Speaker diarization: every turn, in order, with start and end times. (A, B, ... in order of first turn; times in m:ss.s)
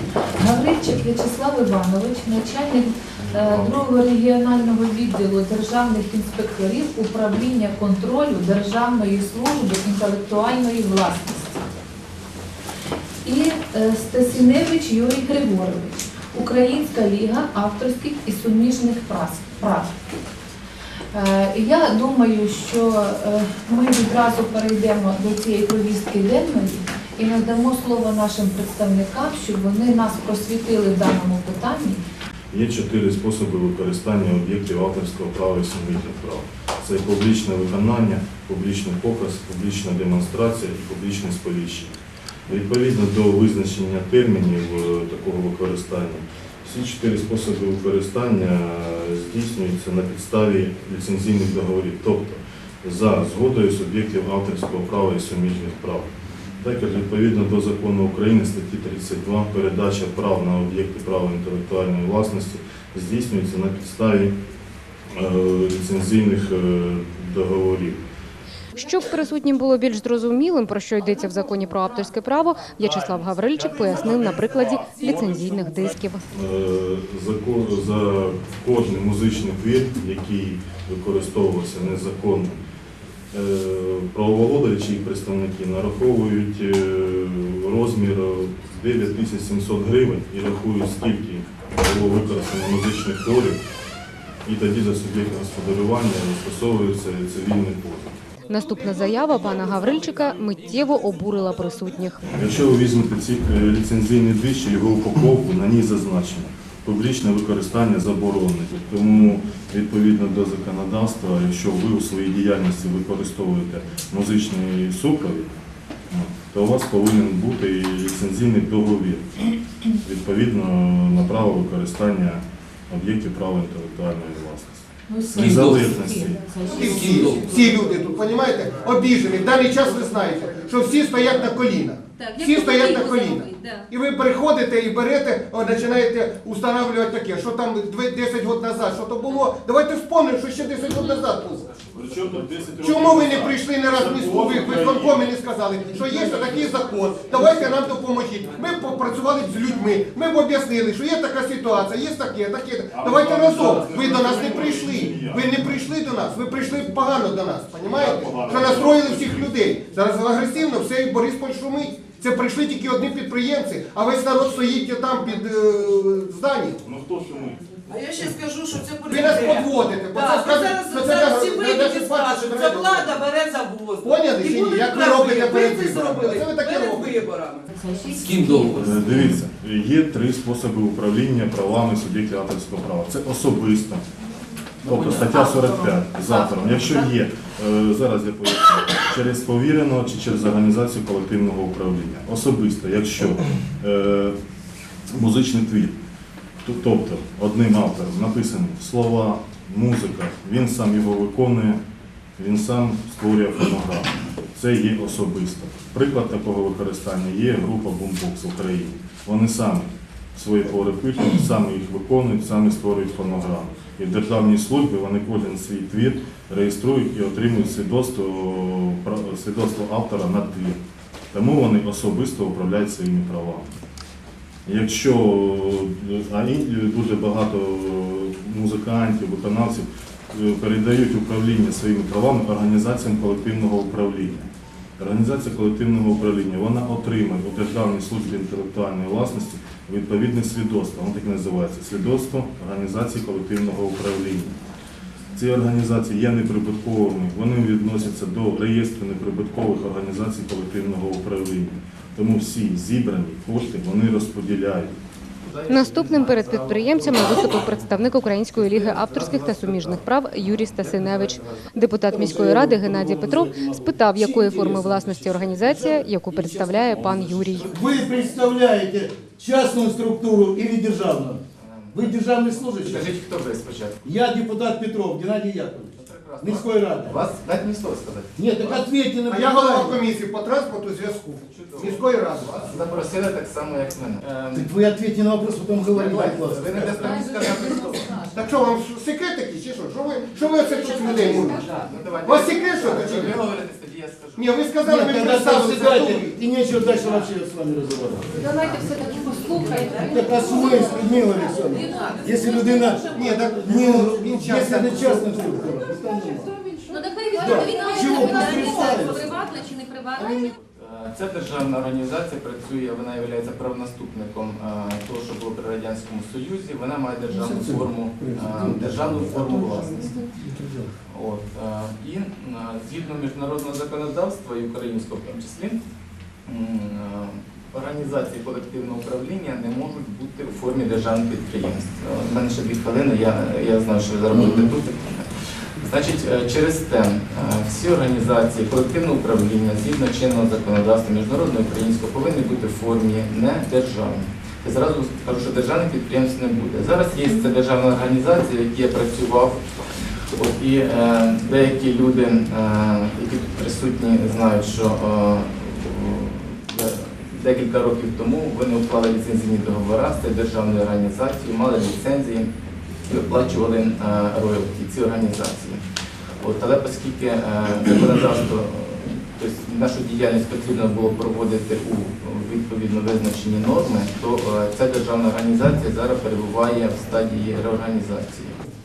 0:00.4-0:11.6 A
0:13.2-0:19.9 A
0:21.1-0:32.0 A
0:32.5-0:42.0 B
0:42.5-1:04.3 B
1:05.1-1:08.0 B
1:08.8-1:16.2 C
1:13.7-1:14.1 B
1:16.3-1:22.6 B
1:23.3-1:33.6 B
1:34.4-1:38.2 B
1:38.4-1:41.2 D
1:38.5-1:42.2 C
1:42.4-1:55.5 B
1:56.1-1:59.3 B
2:00.0-2:06.6 B
2:05.1-2:06.3 A
2:06.5-2:07.2 E
2:06.6-2:21.7 F
2:12.2-2:13.8 E
2:21.9-2:25.3 B
2:22.8-2:46.8 F
2:32.9-2:35.4 B
2:37.8-2:39.5 B
2:46.8-2:47.7 B
2:47.9-2:58.9 D
2:49.1-2:53.2 F
2:54.0-2:57.2 F
2:57.8-2:59.3 E
2:58.8-3:04.0 B
3:04.9-3:14.4 B
3:05.1-3:06.8 A
3:15.1-3:16.0 B
3:16.6-3:21.8 B
3:22.4-3:40.8 B
3:41.3-3:43.8 B
3:44.7-4:04.6 B
4:05.4-4:15.0 B
4:15.4-4:21.8 G
4:15.7-4:27.7 C
4:22.1-4:33.1 H
4:26.5-4:28.5 G
4:31.6-4:34.1 G
4:34.0-4:37.3 H
4:36.0-4:38.9 G
4:38.4-4:40.0 H
4:39.3-4:42.9 F
4:41.5-4:44.7 G
4:44.5-4:47.4 H
4:45.9-4:48.2 G
4:48.3-4:51.6 F
4:51.0-4:51.9 D
4:51.0-4:54.5 G
4:52.2-4:53.5 F
4:54.4-4:56.3 F
4:54.8-4:58.4 H
4:58.3-5:03.5 A
5:00.0-5:06.5 H
5:03.1-5:05.6 F
5:06.9-5:09.1 A
5:06.9-5:10.5 E
5:07.4-5:09.4 H
5:10.8-5:20.2 G
5:17.5-5:19.6 H
5:20.2-5:20.7 H
5:21.1-5:25.8 G
5:26.5-5:49.7 G
5:50.4-6:02.5 G
6:03.1-6:05.8 G
6:06.4-6:18.6 G